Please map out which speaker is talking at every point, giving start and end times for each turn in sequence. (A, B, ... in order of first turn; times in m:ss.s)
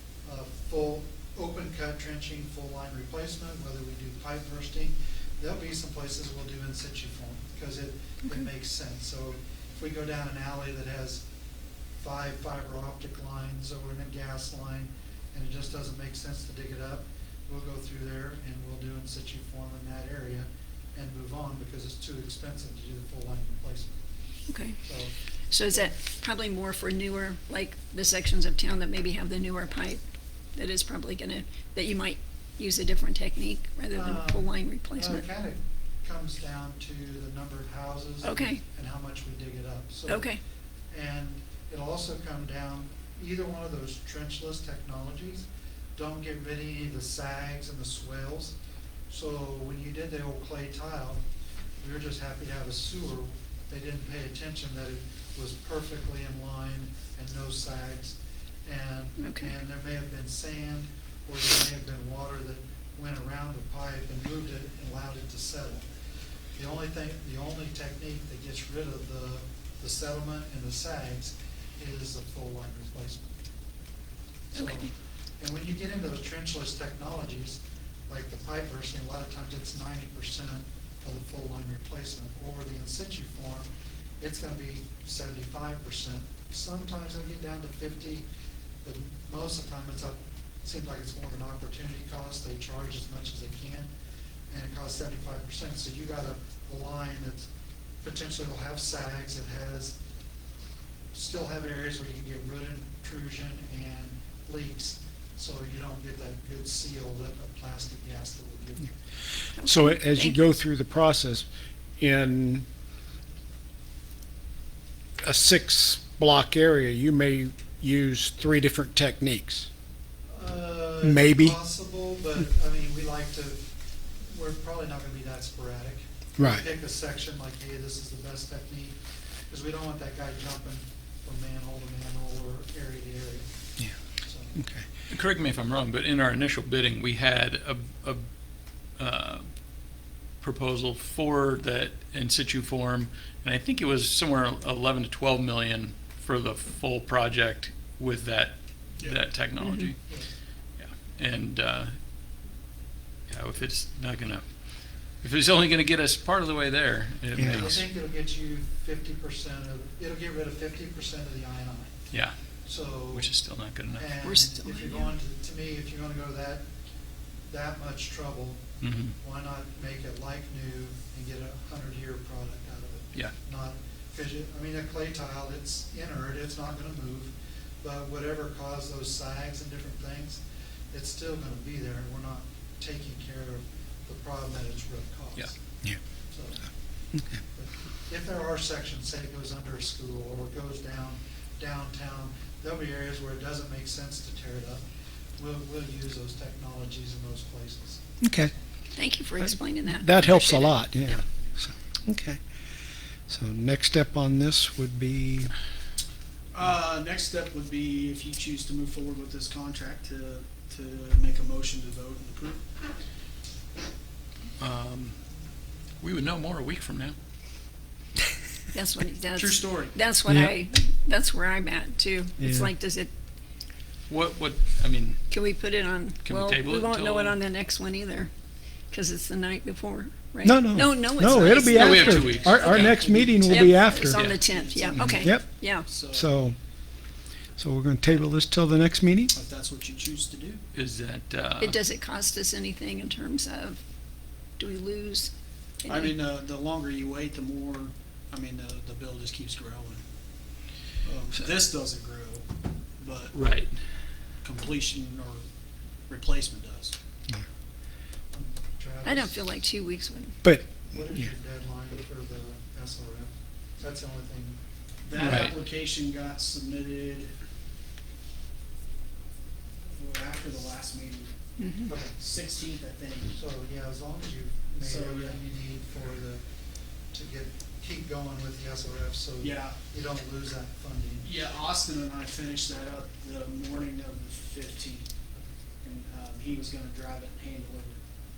0:00.2-0:11.2 A
0:12.0-0:24.0 A
0:24.5-0:24.8 B
0:24.8-0:25.1 A
0:25.5-0:30.0 B
0:25.7-0:25.9 A
0:30.5-0:35.2 B
0:33.9-0:40.3 A
0:38.2-0:38.6 B
0:40.1-0:40.4 B
0:40.9-0:48.5 A
0:49.1-0:51.2 A
0:51.8-1:05.8 A
0:59.2-0:59.5 B
1:06.5-1:13.3 A
1:14.5-1:23.7 A
1:14.5-1:14.9 B
1:24.2-1:28.2 A
1:28.8-1:33.9 A
1:34.5-1:37.5 A
1:38.0-1:40.0 A
1:41.1-1:48.9 A
1:49.6-1:50.4 B
1:49.6-1:51.5 C
1:52.0-1:52.6 C
1:55.2-1:59.7 C
2:00.3-2:03.6 A
2:01.0-2:01.6 C
2:04.2-2:13.5 A
2:06.4-2:06.6 C
2:14.2-2:14.6 A
2:14.6-2:14.8 C
2:15.1-2:18.2 D
2:19.0-2:19.5 D
2:20.4-2:30.0 D
2:30.8-2:31.9 D
2:33.3-2:34.4 D
2:35.2-2:37.8 D
2:37.4-2:37.7 C
2:37.5-2:42.0 A
2:42.6-2:43.3 A
2:43.1-2:44.1 D
2:43.9-2:46.6 A
2:44.2-2:45.1 B
2:47.5-2:48.6 A
2:48.8-2:49.1 D
2:49.2-3:05.5 A
3:06.3-3:06.7 A
3:07.1-3:07.4 C
3:07.4-3:14.8 A
3:15.4-3:18.0 A
3:18.2-3:18.5 C
3:18.9-3:20.9 B
3:19.4-3:22.4 C
3:23.3-3:25.5 C
3:26.5-3:32.6 E
3:34.6-3:35.2 D
3:36.0-3:37.2 D
3:38.7-3:43.1 B
3:39.4-3:40.0 E
3:40.2-3:40.5 C
3:42.4-3:42.7 C
3:44.1-3:45.2 D
3:45.3-3:48.3 B
3:46.2-3:47.4 D
3:48.9-3:52.0 B
3:50.4-3:54.4 C
3:51.2-3:56.3 E
3:51.8-3:53.0 D
3:52.6-3:52.8 B
3:53.4-3:55.9 B
3:54.9-3:56.6 C
3:57.6-3:59.3 C
3:59.3-4:00.6 E
4:00.7-4:01.8 D
4:01.6-4:03.8 B
4:04.6-4:05.3 B
4:05.8-4:06.1 B
4:05.8-4:10.0 E
4:11.0-4:13.3 E
4:13.3-4:13.9 D
4:14.4-4:15.4 E
4:16.1-4:16.9 E
4:18.3-4:19.6 A
4:19.0-4:20.4 B
4:20.4-4:21.2 C
4:20.9-4:24.6 A
4:25.0-4:27.3 E
4:25.2-4:25.5 D
4:25.2-4:25.5 A
4:29.9-4:31.3 E
4:31.6-4:31.9 B
4:31.9-4:32.2 A
4:32.1-4:33.3 E
4:33.3-4:36.4 A
4:34.8-4:35.4 E
4:37.1-4:41.3 A
4:39.4-4:39.8 E
4:41.2-4:45.1 E
4:45.8-4:48.0 E